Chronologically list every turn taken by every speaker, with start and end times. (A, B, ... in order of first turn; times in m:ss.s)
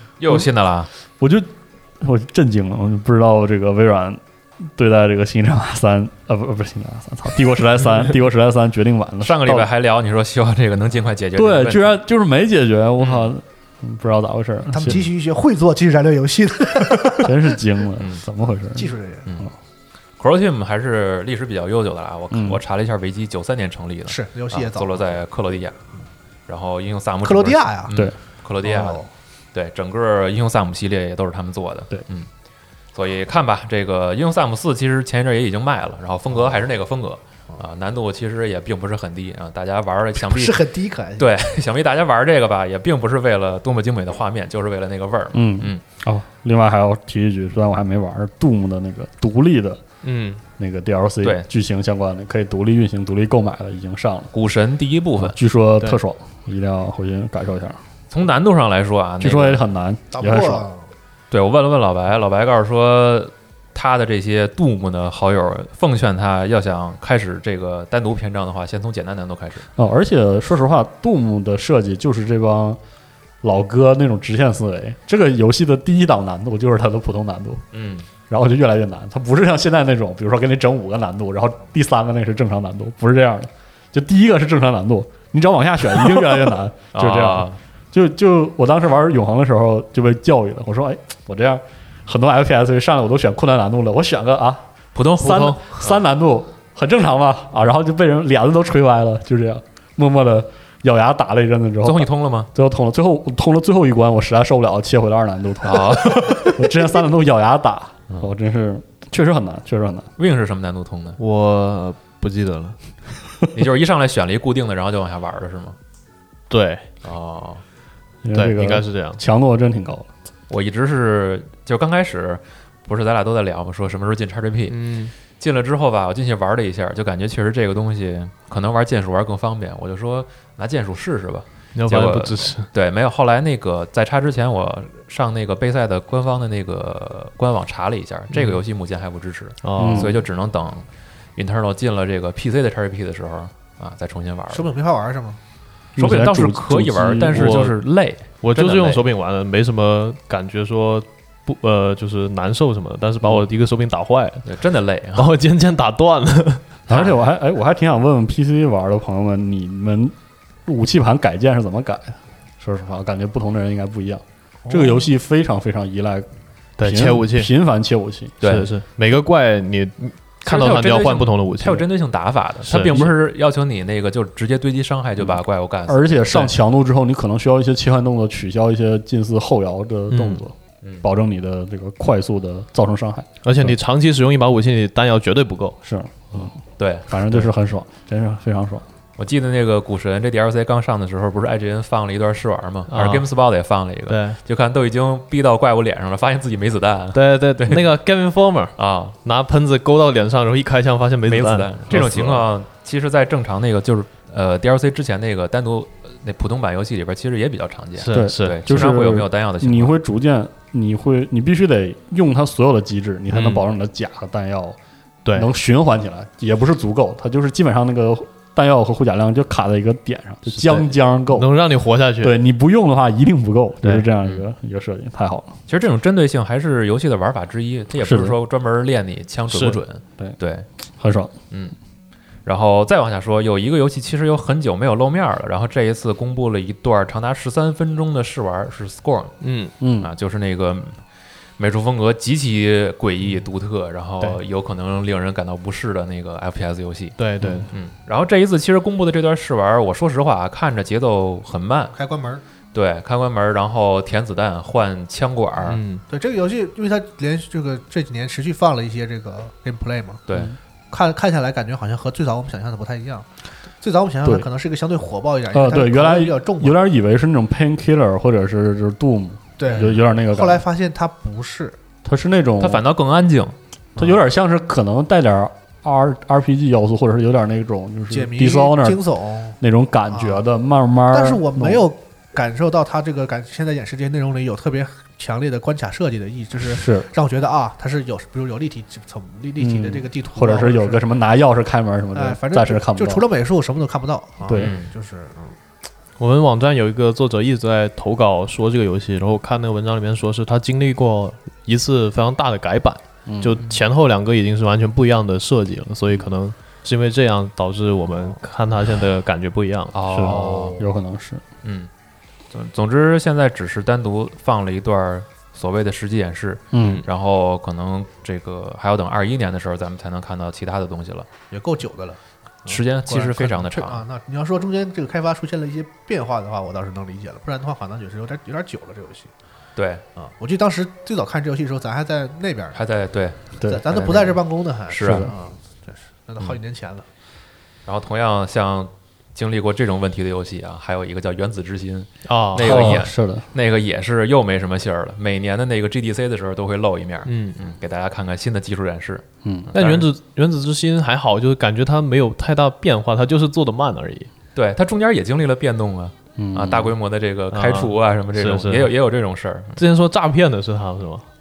0:00.2-0:00.9 A
0:01.2-0:09.7 B
0:09.2-0:12.0 A
0:11.4-0:15.0 B
0:13.0-0:13.3 A
0:14.7-0:17.6 C
0:17.2-0:19.5 B
0:18.0-0:18.2 A
0:18.8-0:19.3 C
0:19.3-0:19.5 A
0:20.2-0:25.8 A
0:22.3-0:22.6 B
0:24.1-0:25.2 C
0:26.5-0:29.0 A
0:27.2-0:28.0 C
0:28.6-0:29.1 C
0:29.5-0:32.3 A
0:33.0-0:40.6 A
0:36.3-0:36.6 C
0:40.2-0:41.4 C
0:41.2-0:45.8 A
0:45.3-0:49.8 B
0:50.0-0:50.4 D
0:50.6-0:54.3 B
0:54.3-0:55.4 A
0:55.2-0:57.8 B
0:58.1-0:59.6 A
0:59.2-1:00.7 B
1:00.1-1:00.9 C
1:01.3-1:09.7 A
1:09.8-1:12.8 B
1:13.4-1:17.6 B
1:17.7-1:18.1 A
1:18.3-1:34.6 B
1:26.9-1:27.6 A
1:35.0-1:36.0 A
1:35.2-1:50.1 B
1:41.8-1:42.5 A
1:45.6-1:46.6 A
1:50.2-1:51.2 A
1:51.2-1:52.8 D
1:53.5-1:55.8 A
1:56.5-1:56.8 D
1:57.0-1:57.6 A
1:58.2-2:00.1 B
1:58.3-1:59.2 D
2:00.5-2:24.7 A
2:04.7-2:05.1 D
2:11.8-2:12.7 D
2:18.3-2:18.6 D
2:19.6-2:20.2 D
2:19.8-2:20.2 B
2:24.5-2:25.4 C
2:26.0-2:27.7 B
2:26.0-2:29.0 A
2:27.3-2:27.8 D
2:28.4-2:34.5 D
2:34.4-2:35.3 A
2:35.2-2:36.8 D
2:36.9-2:37.1 A
2:36.9-2:40.2 B
2:40.7-2:46.3 B
2:44.7-2:45.0 C
2:46.8-2:47.5 D
2:46.8-2:48.4 B
2:48.4-2:48.7 A
2:48.4-2:51.9 D
2:50.4-2:56.2 A
2:52.7-2:53.1 D
2:55.9-3:03.3 B
3:00.1-3:00.4 D
3:03.4-3:05.8 D
3:05.8-3:06.6 B
3:06.8-3:07.1 A
3:07.1-3:08.8 B
3:09.2-3:17.9 A
3:12.9-3:13.3 D
3:14.1-3:14.4 D
3:17.1-3:22.5 D
3:18.8-3:19.2 A
3:21.3-3:30.0 A
3:28.0-3:28.6 D
3:28.1-3:34.8 B
3:33.3-3:33.7 D
3:35.2-3:35.5 D
3:35.3-3:41.5 B
3:40.5-3:42.4 D
3:42.2-3:45.5 B
3:43.8-3:44.1 D
3:45.7-3:50.7 A
3:48.0-3:48.4 B
3:49.5-3:49.8 D
3:51.0-3:51.3 B
3:52.4-3:59.4 A
3:59.4-3:59.7 D
3:59.8-4:00.1 B
4:00.0-4:01.0 A
4:01.6-4:11.9 A
4:07.2-4:07.7 D
4:11.9-4:12.4 C
4:12.7-4:15.8 A
4:15.7-4:16.0 D
4:16.1-4:20.2 C
4:20.3-4:20.5 A
4:20.9-4:23.3 C
4:23.8-4:26.8 C
4:25.5-4:30.6 B
4:29.6-4:31.8 C
4:32.0-4:32.8 B
4:32.6-4:33.6 A
4:34.0-4:39.0 B
4:38.1-4:39.6 C
4:39.6-4:41.9 B
4:40.1-4:40.4 C
4:41.1-4:51.0 C
4:46.6-4:47.1 B
4:49.6-4:53.2 B
4:52.1-4:55.6 C
4:54.4-4:54.7 B
4:54.6-4:54.9 A
4:56.2-5:10.6 D
5:03.3-5:03.6 B
5:09.9-5:10.8 A
5:10.1-5:11.4 B
5:11.6-5:11.9 A
5:12.5-5:21.3 A
5:16.7-5:17.0 B
5:16.8-5:17.0 D
5:21.5-5:29.3 C
5:22.7-5:24.0 A
5:29.8-5:30.0 A
5:30.2-5:32.8 C
5:32.7-5:35.3 A
5:33.6-5:37.1 C
5:35.0-5:35.3 B
5:37.9-5:50.1 A
5:42.2-5:43.0 D
5:42.6-5:43.5 B
5:47.3-5:47.6 D
5:49.4-5:49.7 B
5:49.8-5:54.3 D
5:54.6-5:59.8 A
5:56.4-5:57.0 B
5:57.5-5:58.9 D
5:59.8-6:01.3 D